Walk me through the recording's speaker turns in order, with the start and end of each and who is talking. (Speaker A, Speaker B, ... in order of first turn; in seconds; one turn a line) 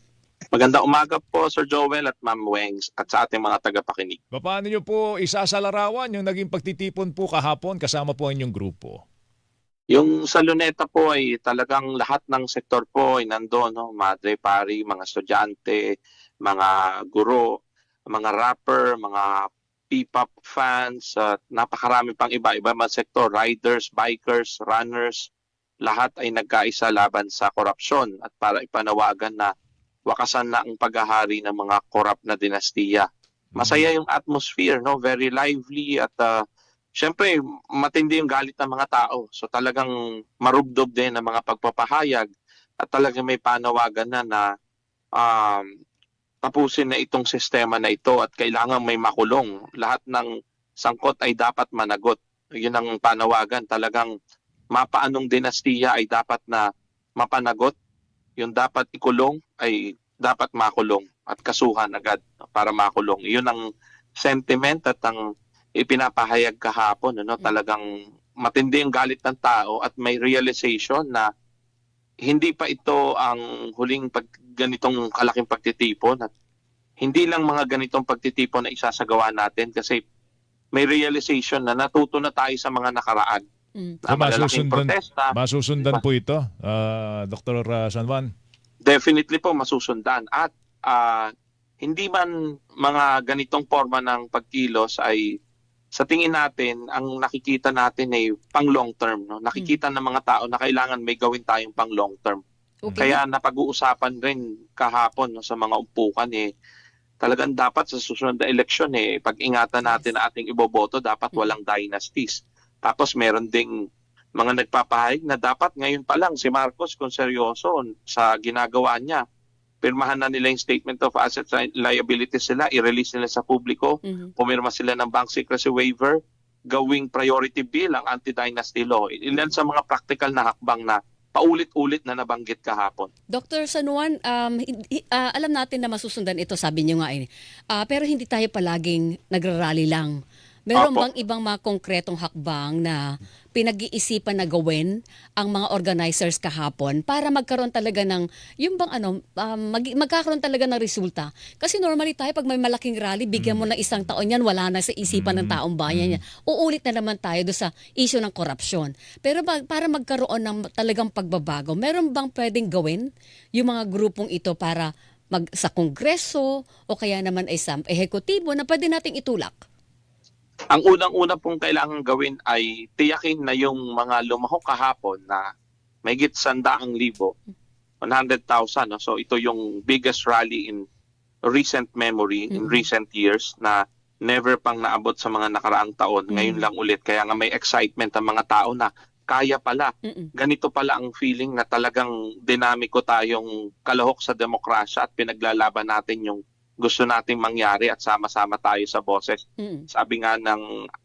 Speaker A: 0.5-4.2
Speaker B: 4.3-9.0
Speaker A: 9.9-15.9
Speaker A: 16.4-17.5
Speaker A: 18.1-25.3
Speaker A: 25.8-29.5
Speaker A: 30.1-36.3
Speaker B: 33.6-33.8
Speaker A: 37.0-42.3
Speaker A: 42.8-44.4
Speaker A: 45.2-45.6
Speaker A: 46.4-50.3
Speaker A: 50.8-54.1
Speaker A: 54.7-56.6
Speaker A: 57.2-57.7
Speaker A: 58.4-63.6
Speaker A: 64.2-65.2
Speaker A: 65.8-67.9
Speaker A: 68.4-71.3
Speaker A: 72.2-76.3
Speaker A: 77.0-80.0
Speaker A: 80.7-83.4
Speaker A: 84.0-85.3
Speaker B: 84.1-88.3
Speaker A: 88.8-91.3
Speaker A: 91.8-95.2
Speaker A: 95.9-102.4
Speaker C: 102.9-103.2
Speaker A: 103.0-106.5
Speaker A: 107.2-113.7
Speaker C: 109.8-110.1
Speaker A: 114.3-119.2
Speaker A: 119.8-126.2
Speaker C: 124.0-124.3
Speaker A: 126.7-133.1
Speaker C: 133.3-143.0
Speaker A: 140.7-141.1
Speaker C: 143.5-163.0
Speaker B: 153.4-153.7
Speaker B: 155.1-156.2
Speaker C: 163.6-169.6
Speaker A: 170.7-175.4
Speaker A: 176.0-177.3
Speaker A: 178.0-180.8
Speaker A: 181.5-200.6
Speaker C: 182.5-182.9
Speaker C: 186.3-186.7
Speaker C: 199.6-199.9